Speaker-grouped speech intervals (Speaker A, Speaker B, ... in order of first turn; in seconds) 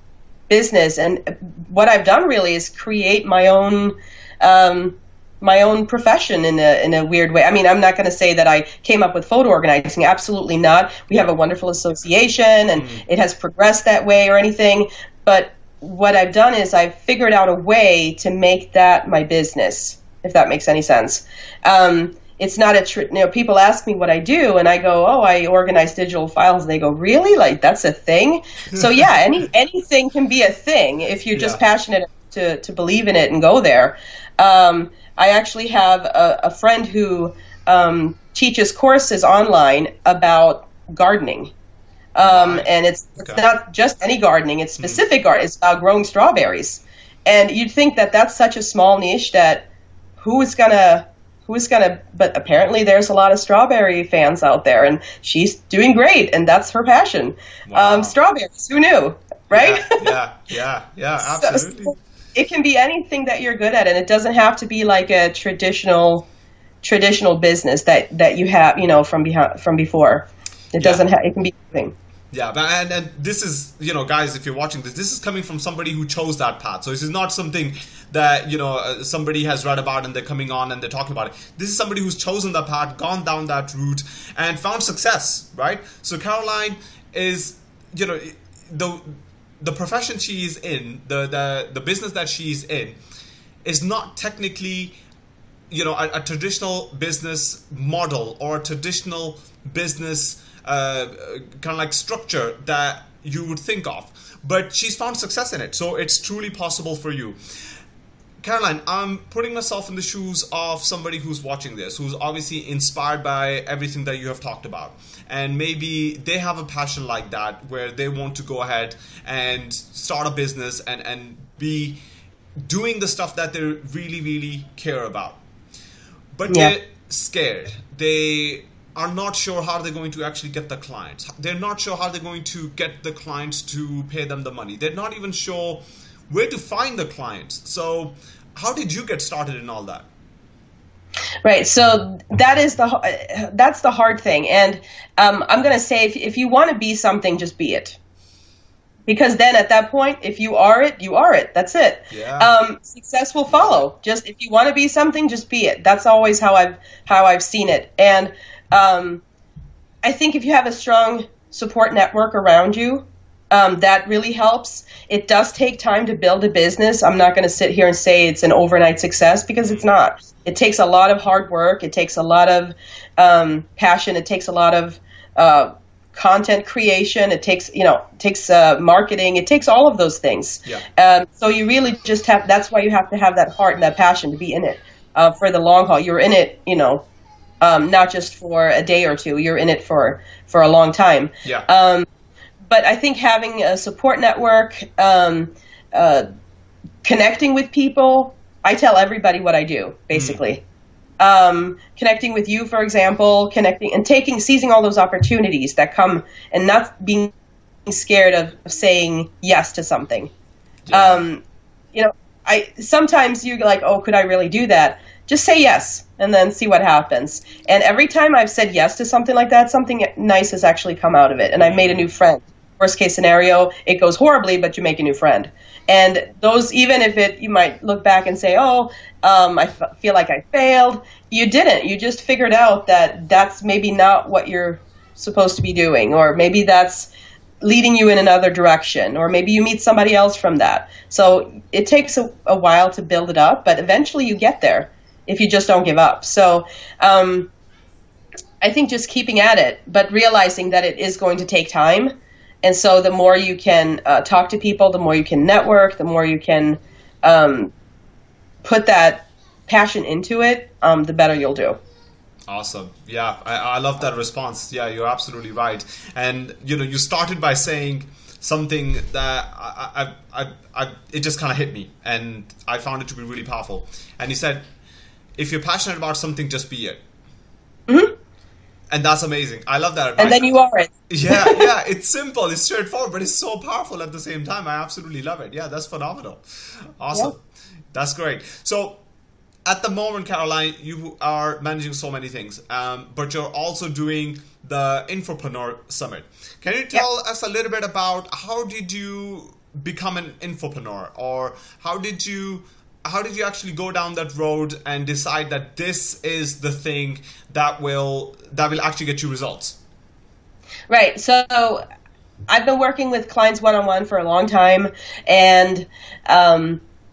Speaker A: 0.5-41.5, 42.1-49.6, 50.2-59.9, 61.2-66.3, 66.8-71.9, 141.4-148.0, 149.1-159.2, 160.0-187.1, 187.6-192.1, 192.7-196.2, 197.0-200.6, 201.2-207.3, 207.9-210.3, 210.9-211.4, 211.9-237.1, 237.6-247.5, 248.6-257.7, 258.6-261.8, 277.9-278.1, 280.2-281.7, 310.9-311.8, 312.5-316.8
Speaker B: 12.8-13.1, 28.7-29.1, 31.3-31.6, 42.2-42.7, 57.6-58.1, 59.5-62.0, 70.8-71.0, 72.3-93.0, 93.6-95.0, 95.7-107.4, 108.4-122.0, 122.6-125.4, 126.4-140.1, 152.1-152.6, 153.5-153.8, 169.6-169.9, 200.1-200.4, 210.9-211.2, 221.6-222.1, 262.5-274.6, 275.4-277.0, 278.9-280.5, 281.1-286.4, 287.0-287.4, 287.9-289.0, 289.6-309.8